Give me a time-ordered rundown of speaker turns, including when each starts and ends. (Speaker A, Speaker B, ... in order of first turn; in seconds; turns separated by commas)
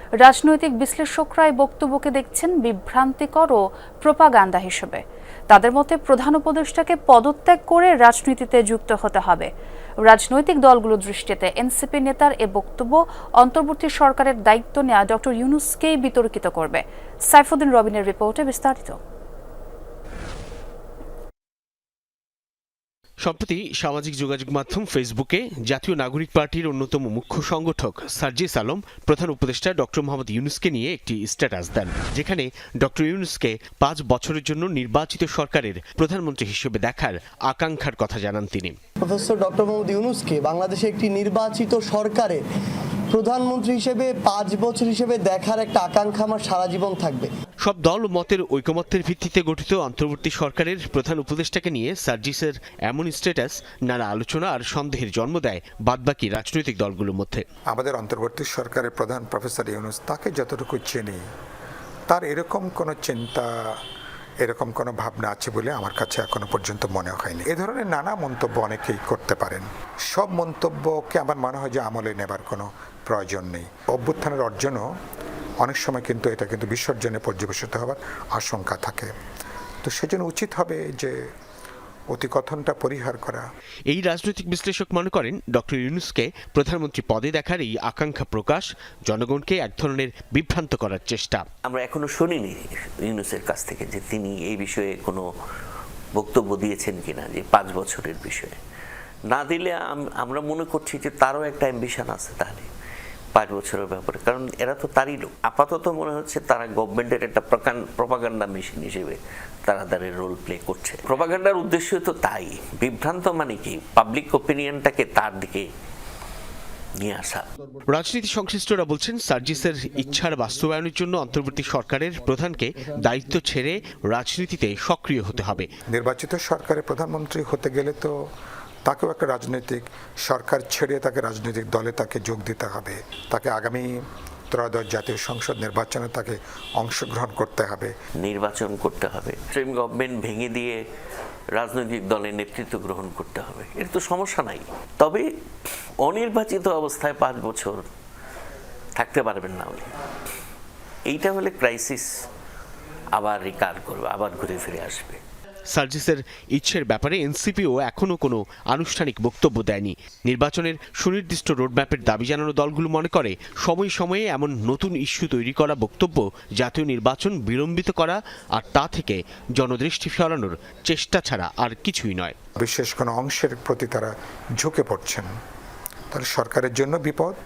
Speaker A: 0.2-9.5, Speaker A: 10.1-19.0, Speaker B: 23.2-38.8, Speaker C: 39.0-42.4, Speaker C: 43.1-47.3, Speaker B: 47.6-57.4, Speaker D: 57.7-61.2, Speaker D: 62.1-63.5, Speaker D: 64.4-74.8, Speaker D: 75.6-79.1, Speaker D: 79.8-81.1, Speaker D: 82.1-83.4, Speaker B: 83.9-91.5, Speaker E: 91.7-95.3, Speaker E: 96.2-98.6, Speaker E: 99.3-102.7, Speaker E: 103.3-115.7, Speaker E: 117.0-117.4, Speaker B: 117.9-125.7, Speaker D: 125.9-128.1, Speaker D: 128.9-133.9, Speaker D: 134.5-137.9, Speaker E: 138.2-140.8, Speaker E: 141.6-145.2, Speaker E: 146.0-147.8, Speaker E: 149.0-149.9, Speaker E: 151.1-152.1, Speaker E: 153.2-155.2, Speaker B: 155.7-172.3, Speaker D: 172.6-175.3, Speaker D: 176.1-177.3